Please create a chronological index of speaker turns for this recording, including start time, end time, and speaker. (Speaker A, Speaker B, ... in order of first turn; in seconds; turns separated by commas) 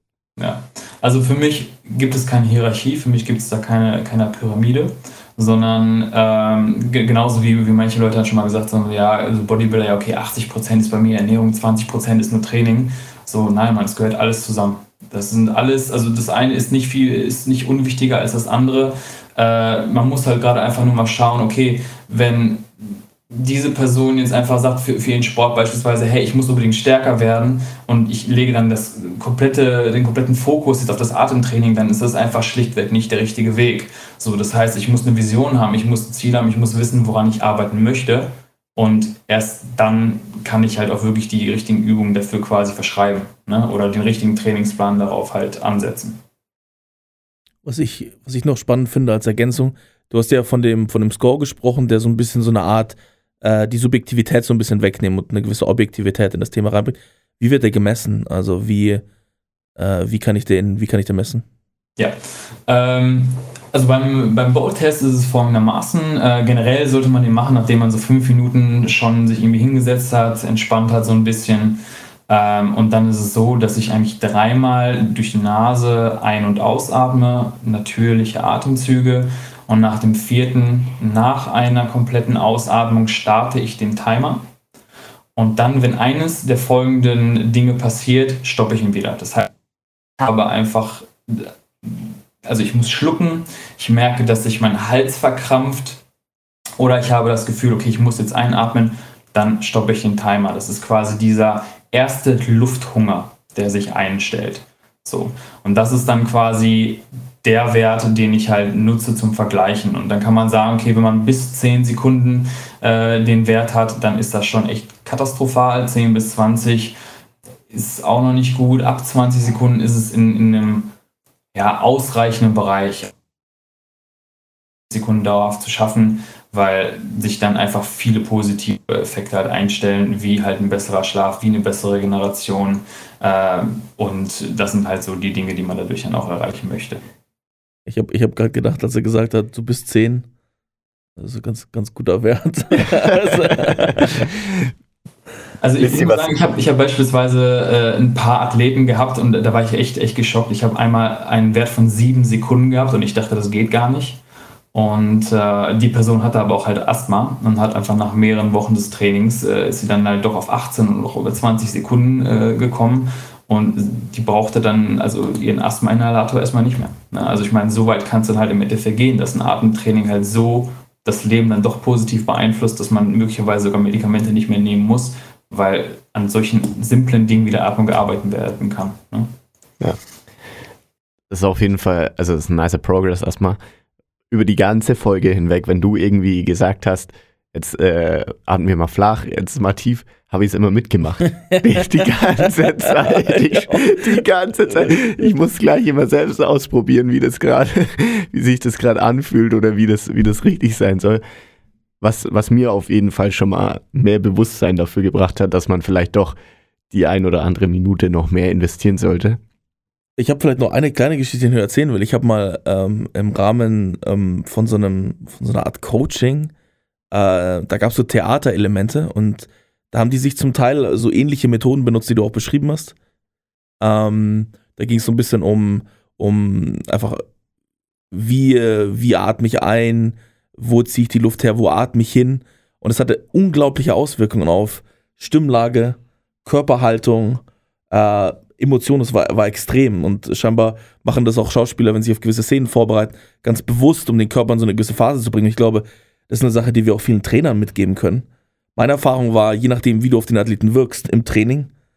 Speaker A: 0.4-46.2, Speaker B: 47.6-59.0, Speaker B: 59.8-61.4, Speaker A: 62.0-84.4, Speaker A: 85.3-89.5, Speaker A: 90.2-96.0, Speaker A: 96.8-117.0, Speaker A: 117.7-120.9, Speaker A: 121.5-123.1, Speaker A: 124.9-137.0, Speaker B: 137.9-140.3, Speaker B: 141.2-144.2, Speaker A: 145.6-154.2, Speaker C: 145.8-146.4, Speaker A: 154.7-179.3, Speaker C: 181.3-183.6, Speaker C: 184.3-201.2, Speaker B: 193.2-194.2, Speaker B: 194.7-195.0, Speaker C: 202.0-206.3, Speaker C: 206.9-209.4, Speaker B: 210.2-216.5, Speaker B: 217.1-222.9, Speaker B: 223.8-227.2, Speaker B: 228.1-251.7